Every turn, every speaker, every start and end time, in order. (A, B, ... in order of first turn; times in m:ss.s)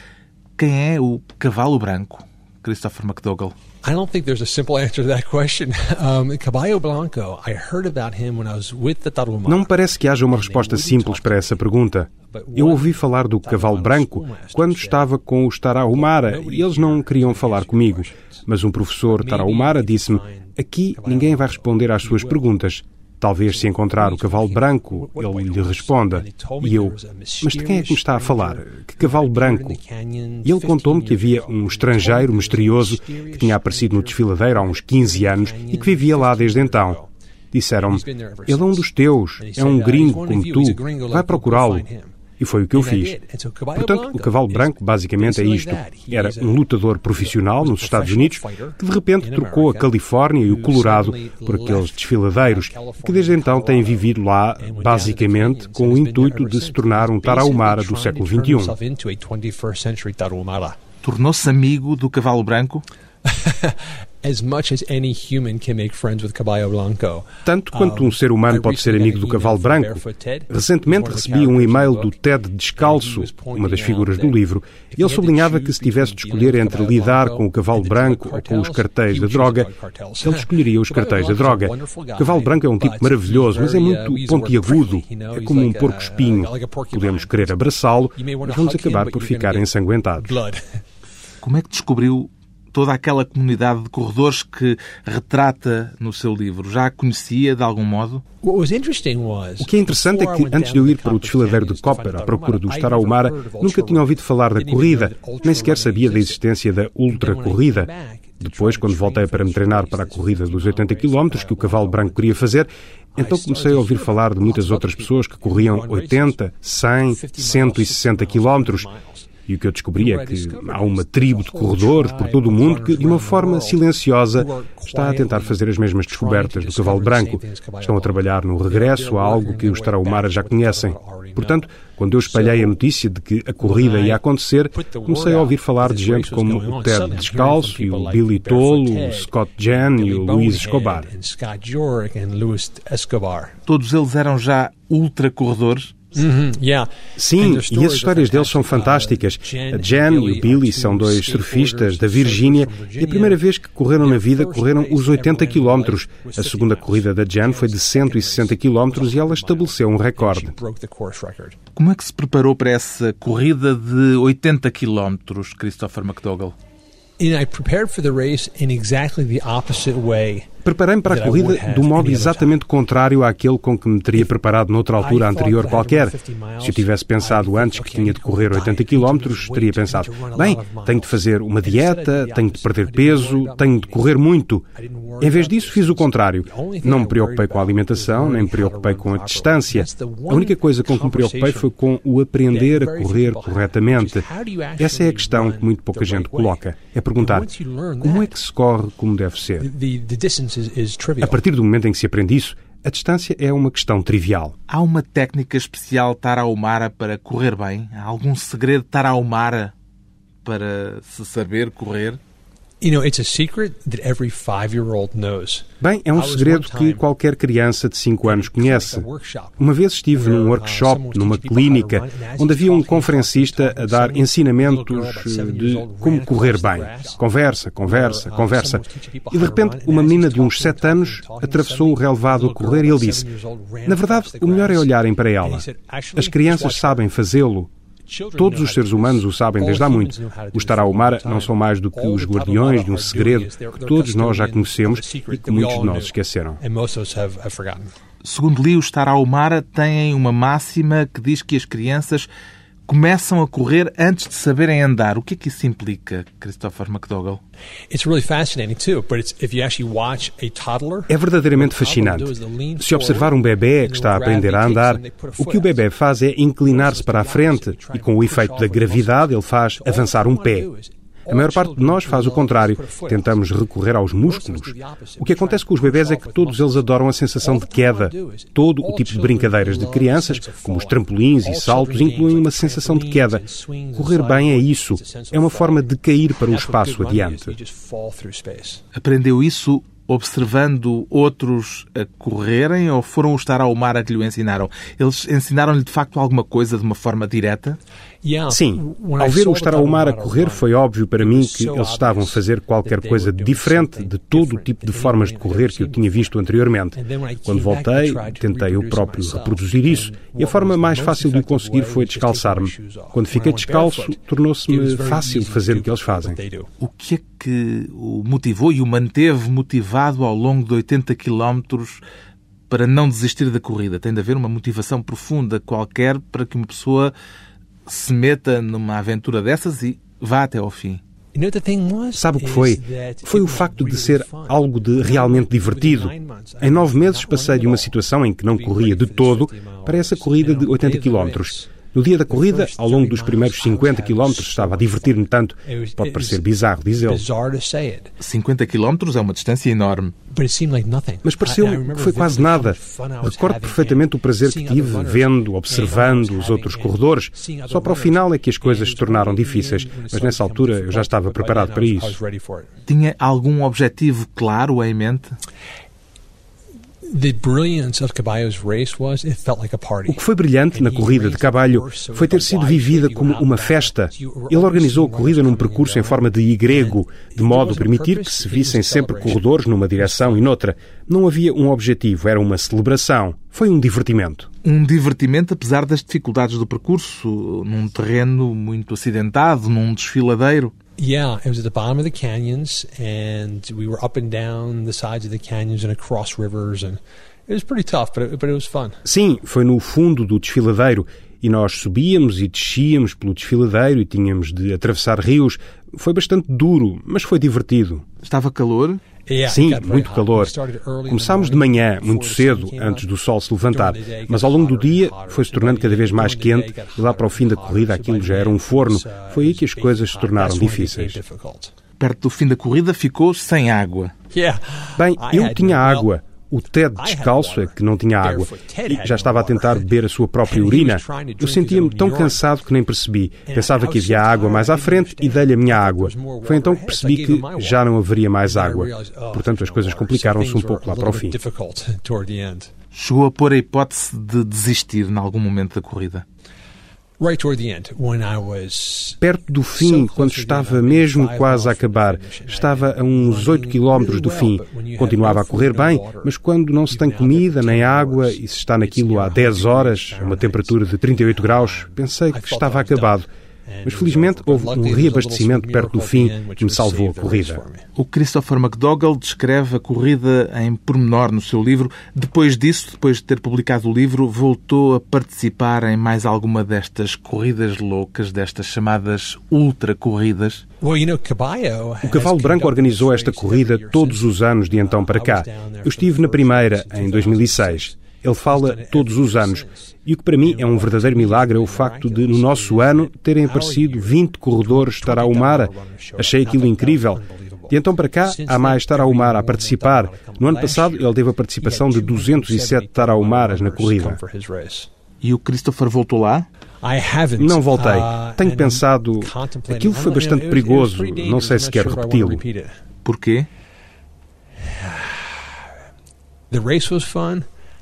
0:00.6-0:03.6 A
0:03.8-0:09.7 B
0:09.5-0:29.8 C
0:10.2-0:11.6 B
0:12.3-0:15.0 B
0:15.9-0:18.4 B
0:19.1-0:22.5 B
0:23.5-0:37.1 B
0:30.4-0:37.0 C
0:37.5-0:41.9 C
0:37.8-0:38.9 B
0:39.4-0:42.2 B
0:42.4-0:43.2 C
0:42.7-1:00.8 B
0:43.7-0:58.8 C
1:01.0-1:02.8 A
1:03.2-1:12.1 B
1:07.4-1:19.7 C
1:12.8-1:27.4 B
1:20.2-1:30.4 C
1:28.2-1:30.8 B
1:31.4-1:38.2 A
1:38.4-1:46.4 B
1:39.6-1:47.9 C
1:47.1-1:52.4 B
1:48.4-1:58.9 C
1:53.2-1:56.4 B
1:57.0-1:59.3 B
1:59.5-2:21.1 C
2:00.0-2:11.7 B
2:12.2-2:12.8 B
2:13.6-2:23.6 B
2:23.7-2:26.0 A
2:26.2-2:33.4 B
2:27.2-2:40.6 C
2:34.0-2:41.6 B
2:41.8-2:46.6 A
2:47.2-2:52.6 B
2:50.6-3:04.7 C
2:55.0-3:04.1 B
3:04.8-3:11.7 B
3:05.2-3:14.2 C
3:12.5-3:16.6 B
3:14.8-3:17.5 C
3:17.2-3:18.4 B
3:18.0-3:19.7 C
3:19.6-3:21.4 B
3:21.2-3:24.6 C
3:24.7-3:29.7 A
3:30.4-3:32.2 A
3:32.8-3:37.0 B
3:35.8-3:39.1 C
3:38.2-3:47.3 B
3:39.6-3:53.3 C
3:47.8-3:57.0 B
3:53.9-3:57.7 C
3:58.1-4:07.9 B
3:58.4-4:06.6 C
4:08.2-4:12.3 A
4:12.9-4:17.4 A
4:17.9-4:25.8 B
4:21.1-4:30.7 C
4:26.6-4:33.4 B
4:31.3-4:43.4 C
4:34.2-4:36.9 B
4:37.4-4:48.8 B
4:44.0-4:47.6 C
4:48.9-4:57.8 A
4:58.2-5:06.3 B
4:58.5-5:16.4 C
5:07.0-5:16.7 B
5:16.8-5:22.0 A
5:22.7-5:27.1 A
5:27.9-5:31.0 A
5:31.3-5:46.4 B
5:32.2-5:47.2 C
5:47.0-5:48.1 B
5:48.2-5:50.2 A
5:50.3-6:02.7 B
5:51.2-6:02.2 C
6:02.9-6:05.4 A
6:07.1-6:19.4 B
6:10.1-6:24.5 C
6:20.0-6:20.5 B
6:24.6-6:30.7 A
6:31.0-6:39.0 B
6:39.0-6:48.0 C
6:48.2-6:49.0 A
6:49.3-6:53.0 B
6:49.4-6:50.5 C
6:51.1-7:01.2 C
6:53.7-7:01.7 B
7:02.0-7:04.1 A
7:04.3-7:06.1 B
7:05.0-7:21.4 C
7:06.9-7:12.4 B
7:13.5-7:17.8 B
7:18.4-7:22.7 B
7:22.9-7:26.2 A
7:27.2-7:29.2 B
7:29.2-7:43.3 C
7:29.8-7:36.3 B
7:36.9-7:47.9 B
7:43.8-7:47.6 C
7:48.0-8:00.6 A
8:00.8-8:24.9 B
8:02.0-8:24.2 C
8:25.2-8:26.5 A
8:26.8-8:32.7 B
8:27.4-8:32.4 C
8:33.0-8:33.5 A
8:34.6-8:35.6 B
8:36.5-8:37.4 B